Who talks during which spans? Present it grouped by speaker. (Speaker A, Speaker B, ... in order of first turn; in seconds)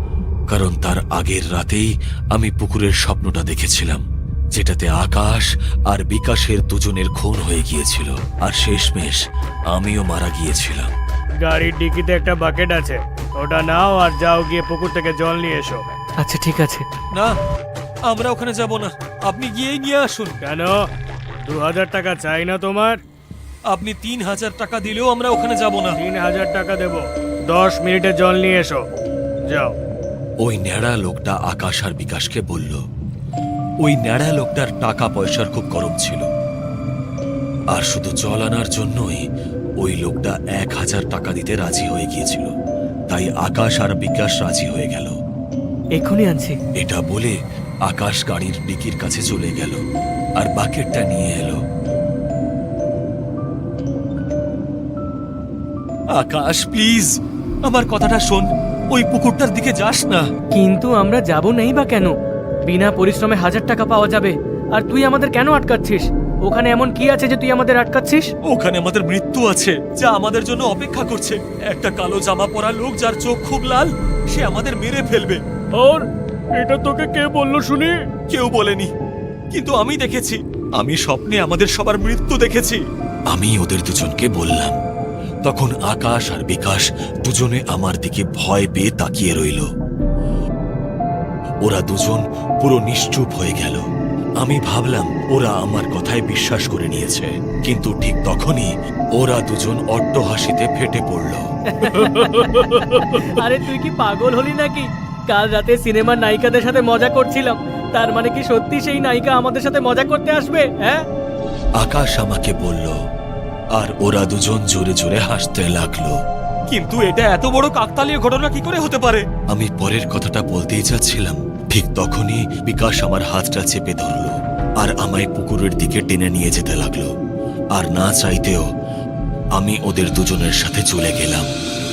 Speaker A: 0.5-10.9, 18.1-20.4, 23.7-26.0, 30.4-32.8, 33.8-36.3, 37.7-39.3, 39.8-42.5, 43.1-45.1, 46.8-47.4, 47.9-49.8, 50.4-51.6, 56.2-57.1, 57.7-60.3, 68.5-75.4, 78.3-78.9, 79.5-82.8, 83.3-84.8, 85.5-89.7, 91.6-93.8, 94.4-101.4, 111.8-113.0, 113.8-116.2, 116.7-127.1, 127.8-128.7, 129.6-131.5
Speaker B: 11.4-15.8, 20.4-20.8, 21.5-23.0, 26.0-28.8, 75.8-76.0, 76.6-77.9, 101.8-102.7
Speaker C: 16.2-16.9, 46.0-46.6, 60.5-62.1, 62.7-68.3, 101.8-111.0